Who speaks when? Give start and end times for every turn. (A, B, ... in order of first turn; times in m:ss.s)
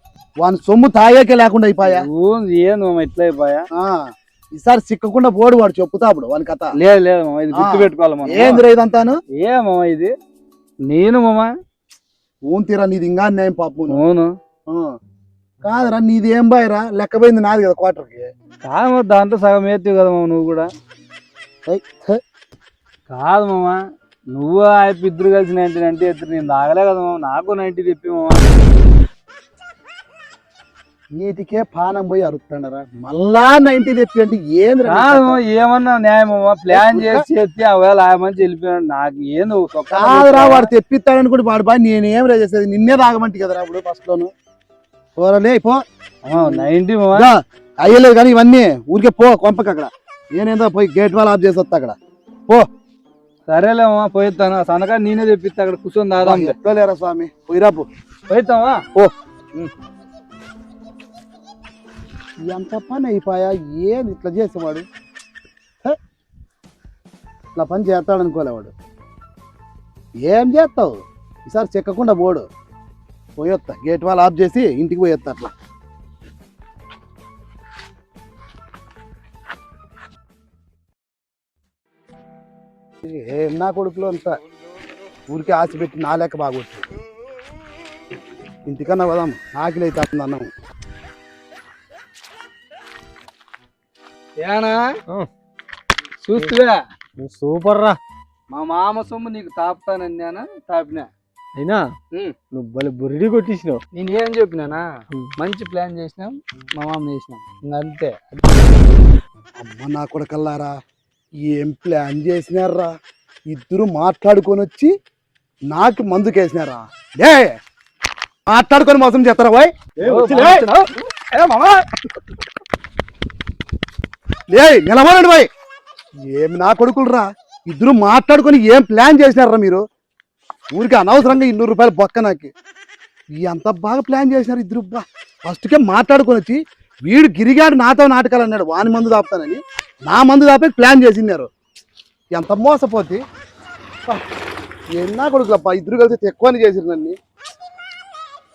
0:00.4-0:02.0 A
0:01.8-0:03.6 B
0:03.7-0:06.7 A
0:06.8-0:08.6 B
0:07.5-0:09.2 A
0:09.3-0:10.1 B
0:10.9-0:11.5 B
0:12.5-0:14.0 A
0:13.9-0:14.3 B
0:15.6-0:18.3 A
0:18.6-0:20.7 B
0:21.7-0:22.2 A
0:23.1-0:23.8 B
0:24.3-0:28.4 B
0:31.2-0:35.4 A
0:34.9-0:40.7 B
0:36.7-0:37.2 A
0:39.9-0:44.3 A
0:45.2-0:45.8 A
0:46.2-0:47.3 B
0:46.3-0:52.0 A
0:53.5-0:56.5 B
0:56.2-0:57.8 A
0:58.3-0:58.8 B
1:02.5-1:04.8 A
1:07.6-1:08.7 A
1:10.2-1:11.0 A
1:11.5-1:12.4 A
1:13.4-1:15.5 A
1:23.0-1:24.4 A
1:25.3-1:26.9 A
1:28.6-1:30.5 A
1:34.4-1:34.8 B
1:36.2-1:36.8 B
1:37.2-1:38.0 C
1:38.5-1:41.1 B
1:41.6-1:41.8 C
1:42.5-1:43.8 C
1:43.9-1:48.4 B
1:49.6-1:50.7 A
1:51.4-1:52.9 A
1:53.5-1:54.9 A
1:55.7-1:57.5 A
1:58.5-2:00.7 A
2:00.0-2:00.6 C
2:00.0-2:02.0 B
2:04.5-2:05.5 A
2:06.3-2:09.8 A
2:10.7-2:12.5 A
2:13.4-2:21.5 A
2:22.3-2:23.2 A
2:25.0-2:27.2 A